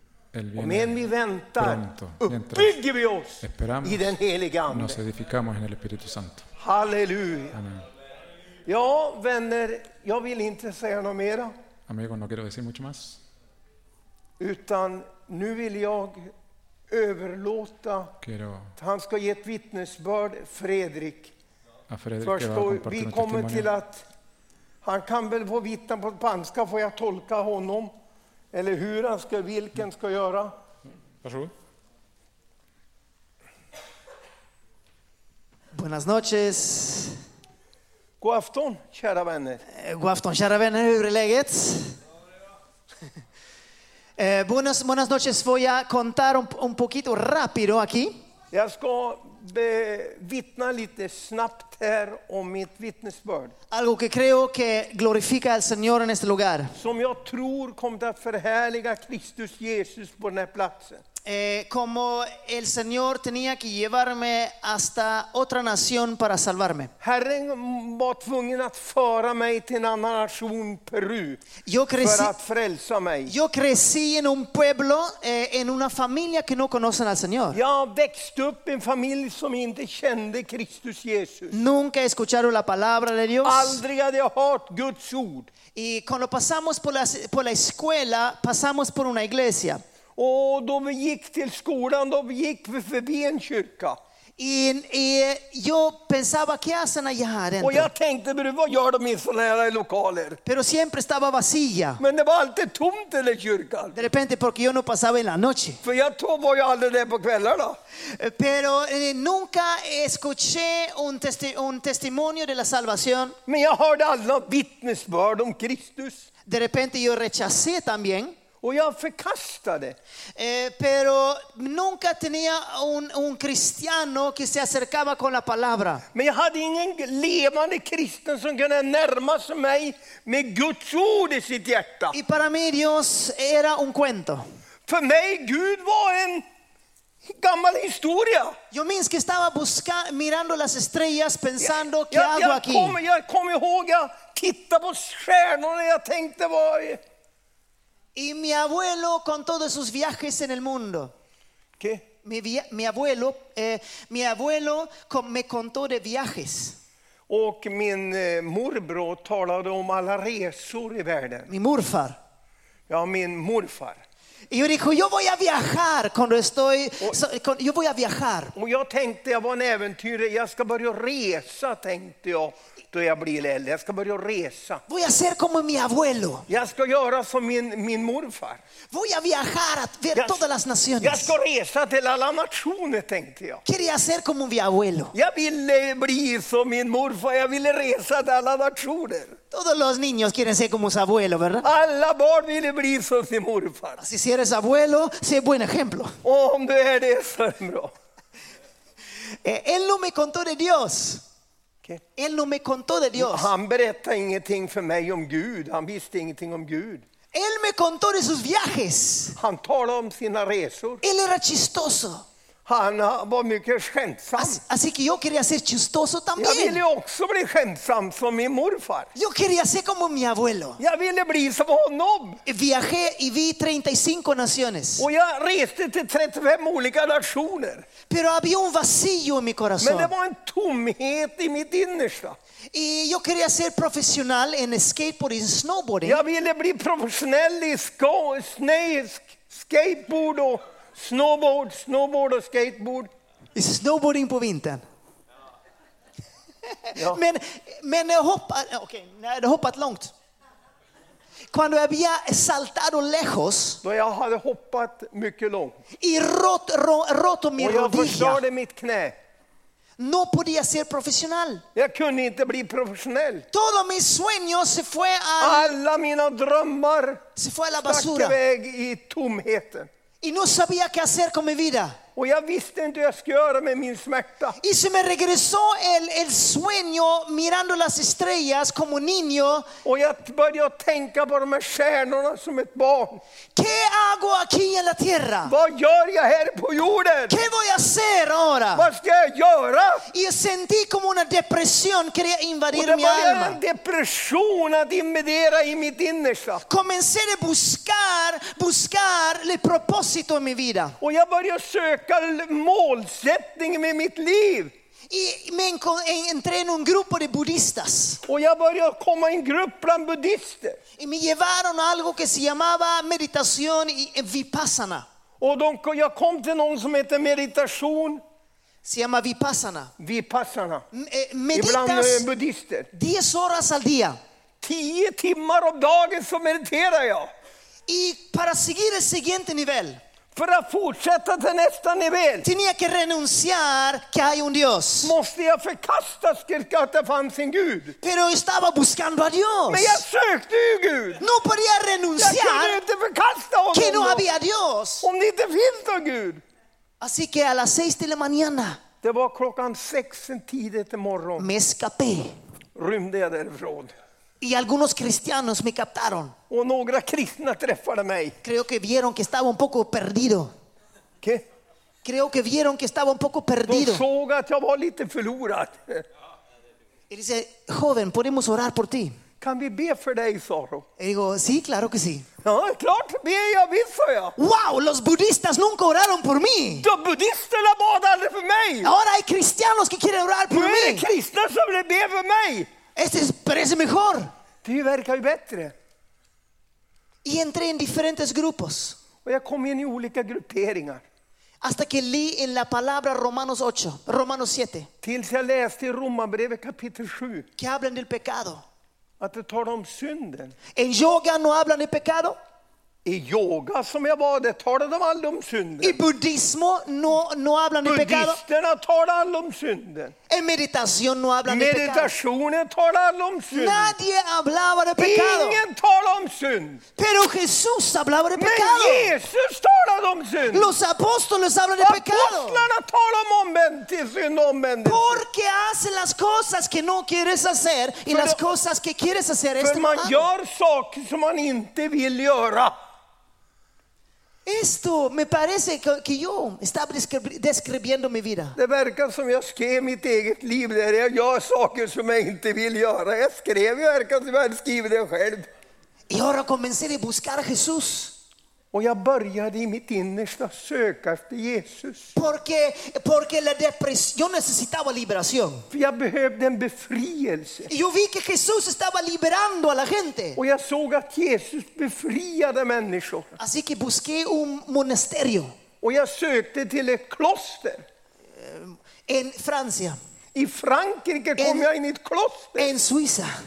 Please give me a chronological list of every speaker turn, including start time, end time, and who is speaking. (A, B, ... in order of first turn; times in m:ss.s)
0:00.3-0:02.8 A
0:00.6-0:05.0 B
0:03.4-0:04.2 A
0:04.7-0:06.5 A
0:06.6-0:07.6 B
0:07.5-0:07.8 A
0:08.6-0:11.5 B
0:11.9-0:13.2 A
0:14.4-0:16.3 B
0:16.9-0:18.2 B
0:18.2-0:18.7 A
0:18.8-0:21.3 B
0:21.9-0:23.7 A
0:22.2-0:24.0 B
0:24.8-0:27.9 B
0:28.5-0:30.5 B
0:31.2-0:31.5 A
0:35.7-0:37.2 C
0:38.2-0:39.6 B
0:39.7-0:42.0 C
0:44.2-0:48.2 C
0:48.5-0:53.5 B
0:53.7-0:56.7 C
0:56.8-1:01.0 B
1:01.2-1:06.9 C
1:07.0-1:11.5 B
1:11.6-1:12.3 C
1:12.0-1:13.3 B
1:13.3-1:17.6 C
1:17.5-1:21.6 B
1:21.5-1:23.8 C
1:23.4-1:25.5 B
1:25.7-1:29.8 C
1:30.2-1:34.0 B
1:34.4-1:37.9 C
1:37.6-1:40.4 B
1:40.4-1:42.0 C
1:42.0-1:44.0 B
1:43.9-1:45.8 C
1:45.8-1:47.8 B
1:48.1-1:53.4 C
1:53.5-1:56.3 B
1:56.5-1:58.4 C
1:58.6-2:00.0 B
2:00.4-2:06.0 C
2:06.1-2:12.2 B
2:12.1-2:14.4 C
2:14.9-2:16.4 B
2:17.2-2:18.6 B
2:18.7-2:23.0 C
2:21.6-2:27.0 B
2:28.1-2:31.1 C
2:31.8-2:32.0 B
2:32.2-2:36.8 C
2:37.3-2:41.5 B
2:41.5-2:42.2 C
2:42.9-2:44.0 B
2:44.5-2:48.5 C
2:48.5-2:54.8 B
2:54.9-2:56.4 C
2:56.5-2:58.6 B
2:58.9-3:01.3 C
3:00.1-3:00.4 B
3:01.0-3:03.6 B
3:03.6-3:05.1 C
3:05.1-3:09.4 B
3:09.5-3:11.6 C
3:11.6-3:14.0 B
3:14.0-3:16.2 C
3:16.2-3:17.9 B
3:19.4-3:21.2 C
3:22.2-3:23.5 C
3:23.2-3:27.0 B
3:27.3-3:29.4 C
3:29.4-3:31.0 B
3:31.0-3:32.2 C
3:32.6-3:34.6 B
3:34.4-3:36.8 C
3:36.4-3:39.1 B
3:39.1-3:40.8 C
3:40.8-3:42.4 B
3:42.4-3:45.0 C
3:45.0-3:47.8 B
3:48.1-3:50.1 C
3:49.8-3:52.4 B
3:52.7-3:56.2 C
3:56.0-4:03.1 B
4:03.5-4:04.8 C
4:06.7-4:10.1 C
4:06.9-4:07.2 B
4:11.5-4:13.8 C
4:13.8-4:15.8 B
4:16.0-4:18.4 C
4:17.6-4:19.2 B
4:20.0-4:21.6 C
4:21.7-4:23.4 B
4:23.5-4:25.7 C
4:25.4-4:27.2 B
4:27.4-4:28.4 C
4:27.8-4:29.9 B
4:30.2-4:32.0 C
4:32.2-4:34.6 B
4:34.6-4:39.7 C
4:39.8-4:43.2 B
4:43.6-4:45.5 C
4:45.4-4:47.4 B
4:47.3-4:48.9 C
4:48.7-4:50.1 B
4:50.1-4:53.6 C
4:52.7-4:56.6 B
4:56.7-5:01.0 C
5:01.0-5:04.7 B
5:05.1-5:08.2 C
5:08.2-5:10.8 B
5:11.0-5:15.0 C
5:15.4-5:18.2 B
5:18.8-5:19.9 C
5:20.0-5:20.8 B
5:20.9-5:22.2 C
5:21.5-5:22.9 B
5:22.9-5:24.2 C
5:24.6-5:27.3 B
5:27.9-5:30.0 C
5:30.3-5:32.4 B
5:32.4-5:35.1 C
5:35.0-5:38.0 B
5:38.0-5:40.0 C
5:39.7-5:41.2 B
5:41.2-5:42.8 C
5:42.2-5:44.2 B
5:43.7-5:45.0 C
5:45.0-5:46.4 B
5:47.0-5:48.8 C
5:49.0-5:51.5 B
5:51.4-5:52.3 C
5:52.8-5:53.9 B
5:54.4-5:56.3 C
5:56.5-5:58.4 B
5:58.4-6:00.5 C
6:02.0-6:04.0 C
6:03.6-6:06.0 B
6:07.1-6:09.2 C
6:09.4-6:10.8 B
6:11.0-6:12.3 C
6:12.4-6:14.4 B
6:14.4-6:16.9 C
6:16.8-6:18.9 B
6:18.8-6:21.0 C
6:20.5-6:22.7 B
6:23.0-6:24.3 C
6:24.6-6:25.7 B
6:27.2-6:29.0 C
6:29.2-6:31.0 B
6:31.6-6:34.9 C
6:35.0-6:37.5 B
6:37.6-6:38.6 C
6:39.2-6:40.6 B
6:40.7-6:42.4 C
6:43.0-6:46.0 B
6:45.8-6:48.4 C
6:47.8-6:50.1 B
6:50.3-6:52.1 C
6:51.5-6:53.9 B
6:53.5-6:55.6 C
6:55.0-6:56.8 B
6:57.0-6:59.1 C
6:58.4-7:00.7 B
7:00.5-7:02.6 C
7:01.8-7:05.2 B
7:04.8-7:10.2 C
7:08.1-7:08.4 B
7:09.6-7:12.7 B
7:14.4-7:18.6 C
7:18.6-7:25.5 B
7:26.1-7:28.1 C
7:28.7-7:32.1 B
7:32.1-7:35.6 C
7:35.7-7:37.7 B
7:37.7-7:40.4 C
7:40.4-7:43.3 B
7:43.4-7:45.5 C
7:45.8-7:47.8 B
7:48.3-7:50.0 C
7:50.3-7:52.7 B
7:51.4-7:51.7 C
7:52.6-7:53.3 C